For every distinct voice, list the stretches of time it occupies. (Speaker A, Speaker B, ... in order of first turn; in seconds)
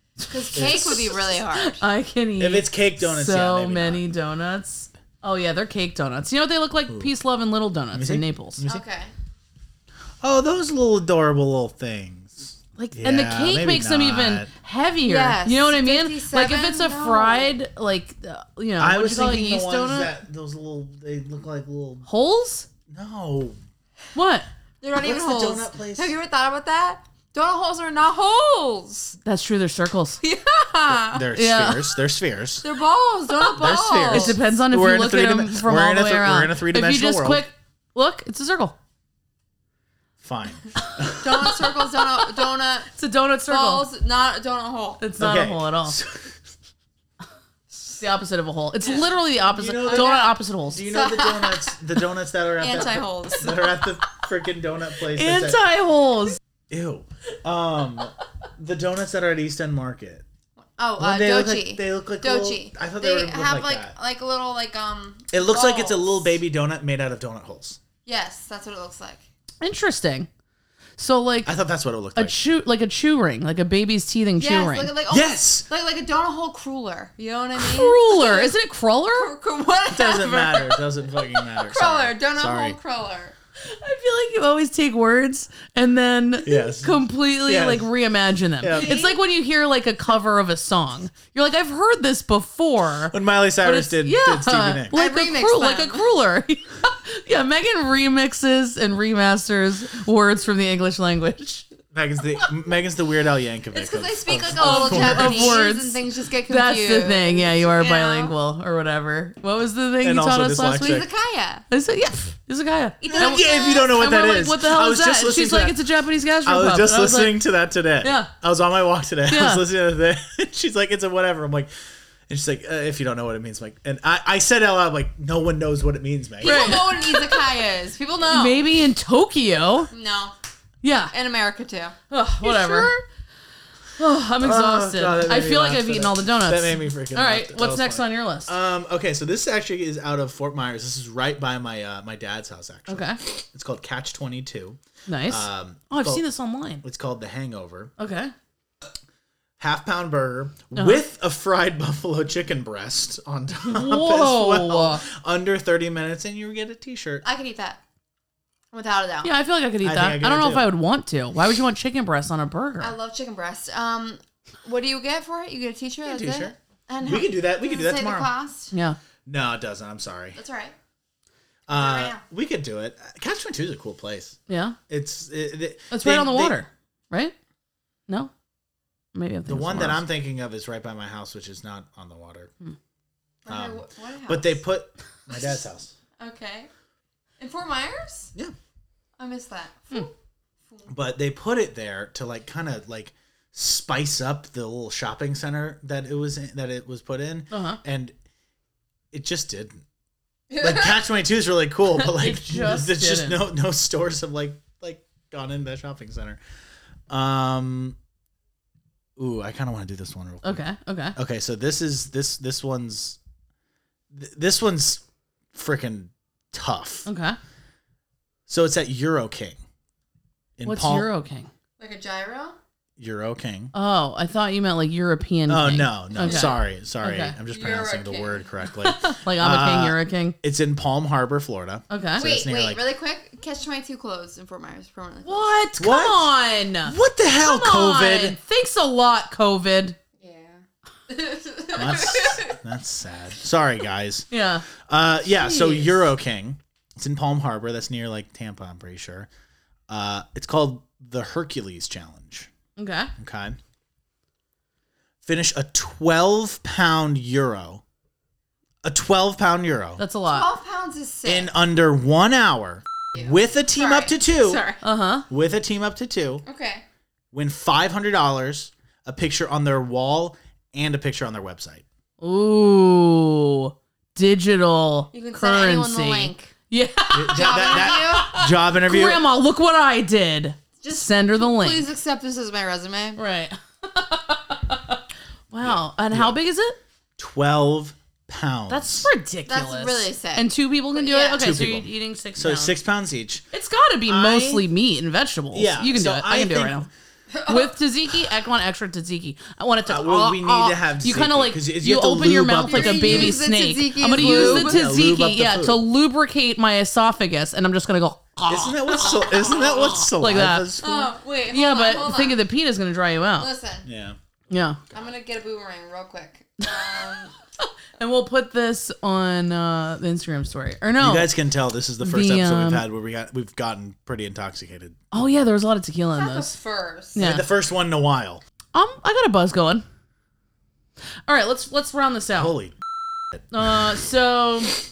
Speaker A: 0.2-8.6, 12.8-20.2, 22.1-22.7, 24.1-24.5, 29.2-30.2, 31.3-31.9, 34.0-38.8, 41.1-41.5, 42.9-43.9, 45.0-46.0, 48.0-50.8, 55.1-56.4, 69.6-70.3, 71.0-71.5, 72.1-74.9, 77.6-79.3, 83.7-101.7, 104.6-111.0, 111.7-117.4, 118.0-118.3, 119.3-119.6, 126.4-127.4, 128.3-129.9, 130.8-131.1, 132.1-132.9, 134.0-138.6, 142.9-143.2, 145.1-146.8, 148.0-148.3, 150.8-151.0, 153.7-155.0, 159.2-162.9, 168.7-169.0, 174.5-174.8, 175.9-177.3, 179.1-180.0, 197.5-197.8, 202.0-203.4, 210.4-211.2, 217.1-217.4, 220.6-221.5, 223.7-227.3, 228.8-230.4, 231.9-232.2, 235.2-240.0, 244.3-244.7, 245.3-246.1, 252.8-253.1, 260.0-260.5, 264.8-265.3, 272.2-281.9, 283.2-286.8, 288.7-292.8, 293.5-296.9, 297.5-313.5, 314.5-314.8, 318.0-321.4, 322.0-322.8, 325.1-326.6, 327.1-327.5, 328.7-329.9, 331.3-332.6, 333.5-334.8
Speaker B: 0.3-1.8, 8.7-9.1, 15.1-17.5, 24.8-29.2, 30.2-31.3, 32.6-34.4, 41.2-42.9, 43.5-45.0, 48.8-49.1, 49.8-51.7, 52.6-53.9, 60.8-66.4, 68.0-69.2, 74.4-78.5, 79.1-80.8, 81.6-83.3, 88.7-89.2, 94.9-96.1, 103.7-108.3, 110.8-111.7, 113.0-113.9, 126.4-128.7, 129.9-130.4, 131.1-132.0, 157.2-157.8, 158.7-159.3, 162.8-168.7, 170.3-170.8, 171.7-172.2, 183.4-184.6, 186.2-186.7, 187.4-188.3, 189.2-190.1, 200.5-201.0, 221.8-222.6, 226.2-226.5, 227.5-228.5, 232.2-235.6, 240.2-242.6, 260.3-261.5, 263.1-264.8, 266.4-266.9, 275.1-276.5, 277.3-278.4, 280.8-283.2, 289.5-291.5, 297.3-297.7, 302.6-304.8, 310.8-312.4, 313.4-313.9, 314.9-317.3, 326.1-327.2
Speaker C: 0.5-1.1, 2.4-4.1, 6.9-7.1, 7.9-8.8, 10.2-14.5, 18.8-22.1, 22.9-23.6, 24.9-26.1, 30.9-32.6, 33.5-37.5, 40.2-41.6, 45.2-46.4, 49.5-55.6, 56.7-60.2, 61.0-64.0, 65.3-67.8, 71.5-72.4, 75.1-75.7, 79.9-82.8, 86.4-87.9, 88.6-89.0, 93.1-95.0, 101.9-105.6, 110.0-111.1, 113.0-115.8, 116.4-121.7, 122.3-127.0, 132.4-133.0, 134.4-146.2, 146.8-147.9, 149.6-157.2, 159.8-160.7, 166.1-168.3, 169.3-170.4, 171.7-174.4, 174.9-176.6, 179.5-182.5, 183.5-185.9, 190.9-198.1, 199.1-199.8, 200.6-206.4, 207.1-208.0, 209.2-210.6, 211.2-213.2, 214.1-215.0, 215.5-217.1, 218.5-219.6, 220.6-221.1, 223.0-223.7, 225.5-232.8, 235.8-236.3, 236.8-238.4, 241.7-244.3, 244.8-249.3, 249.9-252.5, 253.2-253.6, 255.2-257.8, 258.8-260.0, 261.2-264.6, 265.3-266.4, 267.3-271.9, 277.1-279.2, 285.6-286.4, 287.2-289.1, 291.4-293.4, 294.1-294.7, 295.5-296.9, 299.9-303.4, 304.1-305.8, 308.5-311.0, 313.9-314.2, 321.0-325.0, 327.2-328.4, 332.4-332.8